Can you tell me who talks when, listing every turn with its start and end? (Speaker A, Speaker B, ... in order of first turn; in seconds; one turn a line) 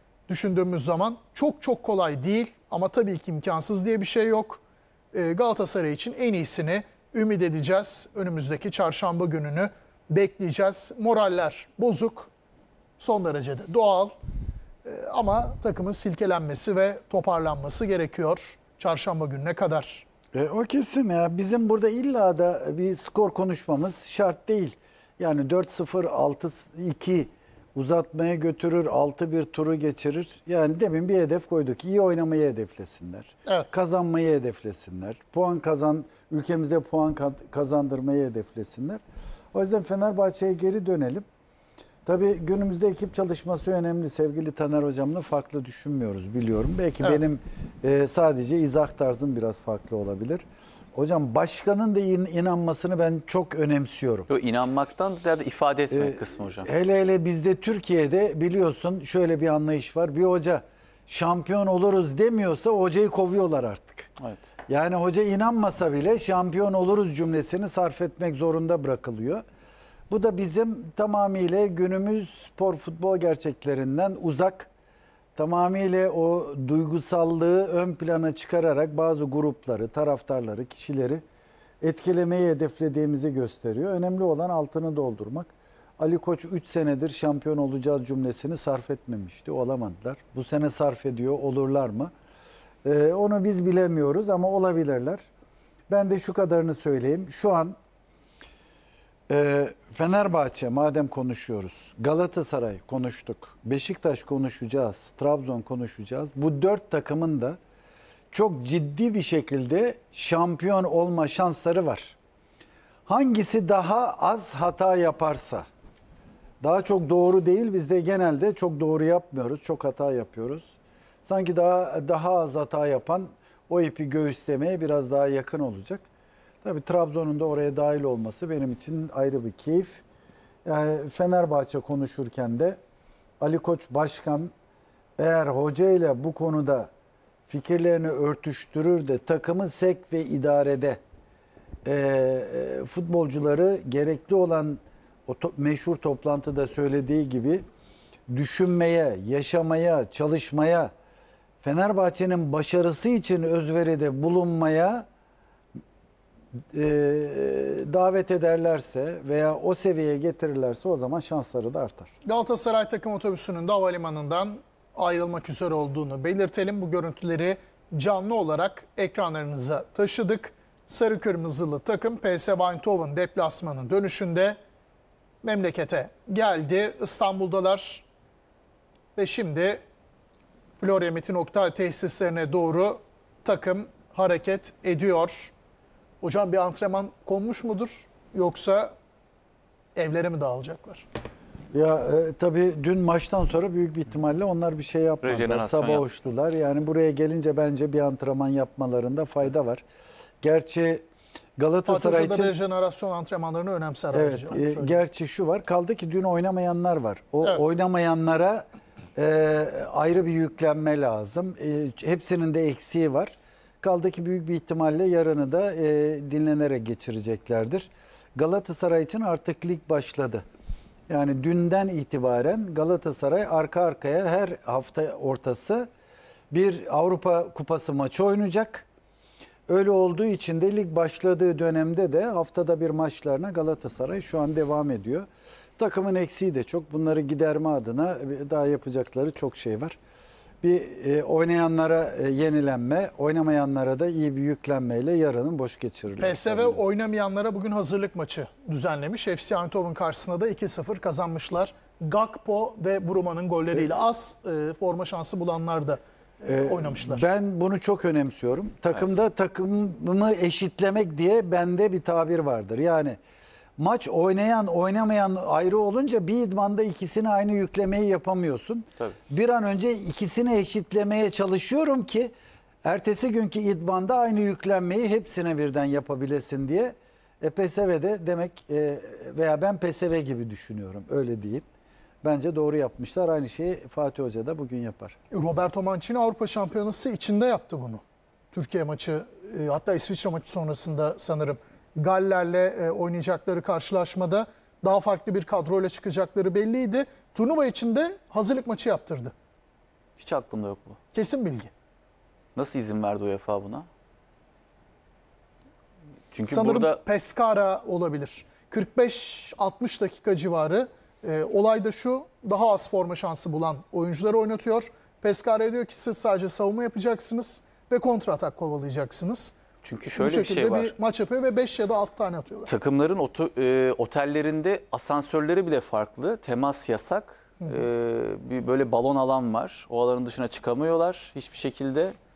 Speaker A: 0.3-4.6
Speaker A: 5.1-12.3
Speaker A: 13.0-14.1
Speaker A: 14.8-20.0
Speaker B: 20.3-39.0
Speaker A: 33.5-33.7
Speaker B: 39.5-41.2
Speaker B: 42.0-50.4
Speaker B: 50.9-54.3
Speaker C: 54.3-56.7
Speaker B: 55.9-64.1
Speaker C: 64.2-64.4
Speaker B: 64.7-69.4
Speaker B: 70.1-74.7
Speaker B: 75.3-81.2
Speaker B: 81.8-92.1
Speaker B: 92.8-95.3
Speaker B: 95.9-97.8
Speaker B: 99.3-107.6
Speaker B: 108.3-112.2
Speaker B: 113.1-115.7
Speaker B: 116.6-120.7
Speaker B: 121.2-126.0
Speaker B: 126.6-130.0
Speaker B: 130.6-132.8
Speaker B: 133.4-134.5
Speaker B: 135.2-136.9
Speaker B: 137.5-141.0
Speaker B: 141.8-147.6
Speaker B: 148.3-150.9
Speaker B: 151.6-155.0
Speaker B: 156.7-162.1
Speaker A: 162.2-174.6
Speaker A: 175.4-178.0
Speaker A: 179.2-179.8
Speaker A: 180.8-185.5
Speaker A: 186.2-188.9
Speaker A: 189.9-191.0
Speaker B: 191.7-199.8
Speaker C: 195.2-196.0
Speaker B: 200.4-201.0
Speaker B: 201.6-202.5
Speaker A: 201.8-205.0
Speaker B: 204.1-208.6
Speaker B: 209.2-220.4
Speaker B: 221.1-225.9
Speaker B: 226.5-228.9
Speaker B: 229.7-235.2
Speaker B: 235.8-240.0
Speaker B: 240.6-246.8
Speaker A: 246.2-257.3
Speaker B: 256.4-263.2
Speaker B: 263.8-272.3
Speaker B: 272.8-281.6
Speaker B: 282.2-285.1
Speaker A: 285.3-288.0
Speaker A: 288.5-299.3
Speaker C: 300.2-301.0
Speaker A: 301.1-301.7
Speaker C: 302.6-303.9
Speaker C: 306.3-307.0
Speaker A: 306.4-319.6
Speaker C: 319.8-320.9
Speaker A: 320.1-322.7
Speaker C: 322.7-332.1